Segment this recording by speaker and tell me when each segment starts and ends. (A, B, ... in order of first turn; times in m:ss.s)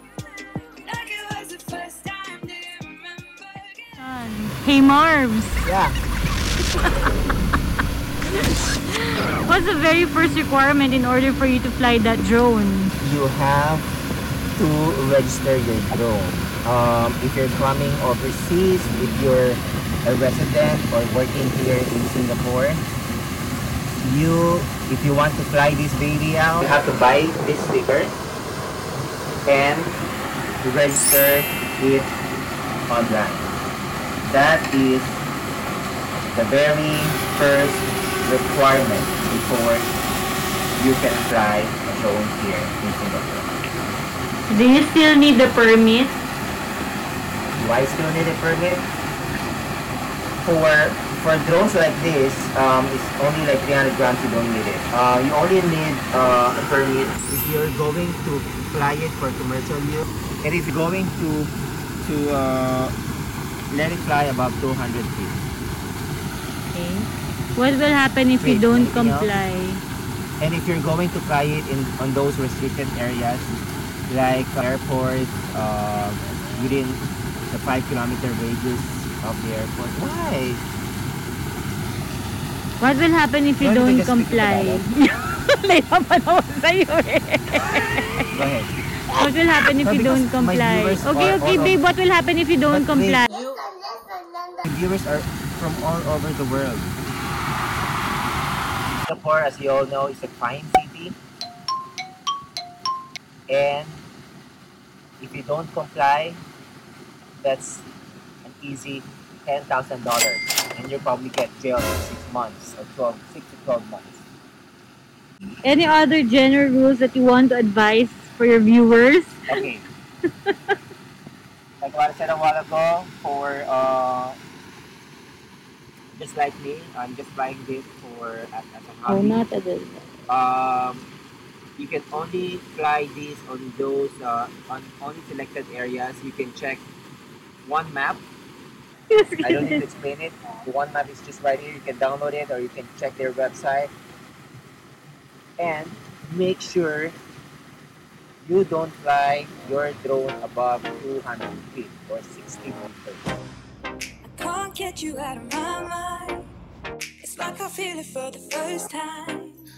0:00.4-0:04.0 A
0:04.0-0:05.6 B
0:05.6-0:05.9 C
0:09.4-0:12.9 B
0:13.0-0:13.9 C
0:14.6-0:22.8 C
0:24.0-0:28.1 C
0:29.4-0:29.9 C
0:30.6-0:32.1 C
0:32.9-0:33.5 C
0:34.2-0:35.2 C
0:36.3-0:39.9 C
0:40.8-0:43.5 C
0:44.5-0:46.2 B
0:47.6-0:48.8 C
0:50.4-1:02.9 C
1:03.7-1:05.4 C
1:06.7-1:09.8 B
1:08.4-1:09.3 C
1:10.4-1:13.5 C
1:14.1-1:20.6 C
1:22.8-1:28.4 B
1:23.6-1:24.8 C
1:28.3-1:28.7 C
1:29.1-1:33.4 B
1:29.8-1:31.8 C
1:32.7-1:33.3 C
1:34.6-1:37.0 C
1:39.0-1:41.2 C
1:43.5-1:44.0 C
1:45.2-1:46.4 C
1:47.4-1:47.8 C
1:48.4-1:54.2 C
1:55.6-1:59.6 B
1:59.5-1:59.8 C
2:01.8-2:04.4 C
2:06.1-2:09.4 C
2:09.1-2:10.1 B
2:10.3-2:11.1 C
2:11.8-2:16.8 C
2:17.6-2:18.2 C
2:19.1-2:19.8 B
2:19.4-2:23.9 C
2:25.6-2:27.1 C
2:28.4-2:33.2 C
2:34.2-2:36.5 A
2:37.2-2:39.6 A